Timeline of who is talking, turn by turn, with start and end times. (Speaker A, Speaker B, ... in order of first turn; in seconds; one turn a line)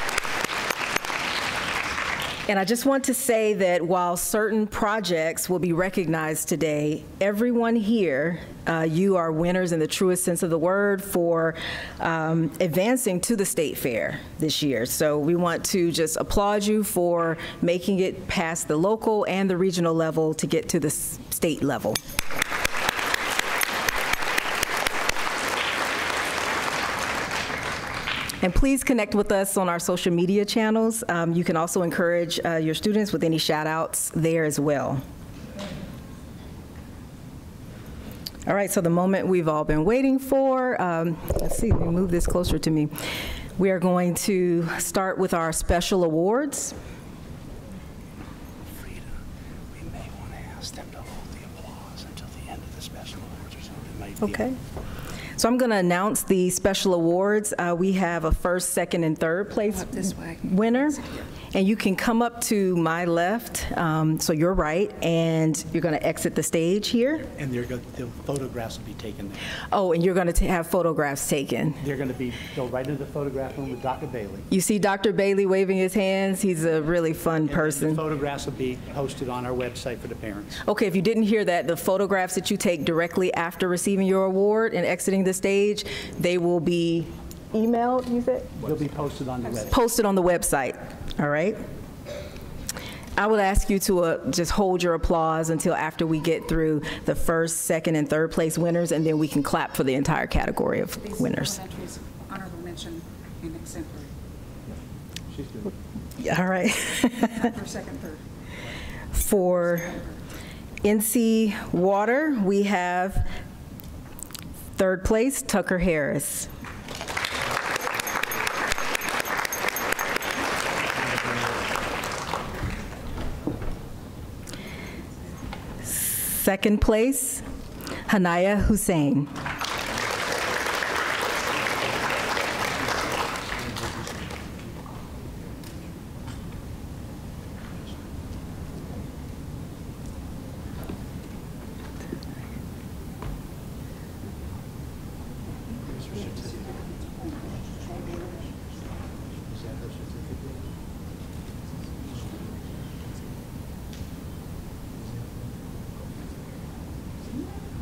Speaker A: 2.5-22.0
Speaker A: 28.4-35.0
Speaker A: 38.5-42.9
Speaker A: 43.6-46.8
Speaker B: 48.7-49.2
Speaker B: 49.7-54.5
Speaker A: 54.2-54.6
Speaker A: 55.4-67.3
Speaker C: 59.7-61.2
Speaker B: 67.3-69.5
Speaker A: 69.7-71.8
Speaker B: 71.8-74.5
Speaker A: 74.5-78.0
Speaker B: 77.5-80.6
Speaker A: 80.7-88.6
Speaker B: 88.6-89.8
Speaker A: 89.7-91.6
Speaker A: 93.2-101.6
Speaker C: 101.0-104.1
Speaker B: 105.3-105.7
Speaker A: 106.2-107.5
Speaker C: 107.4-108.2
Speaker A: 109.1-110.0
Speaker C: 109.3-110.2
Speaker A: 110.8-113.3
Speaker A: 114.8-116.5
Speaker A: 125.9-127.5
Speaker A: 128.1-129.3
Speaker B: 145.9-146.8
Speaker B: 149.4-150.7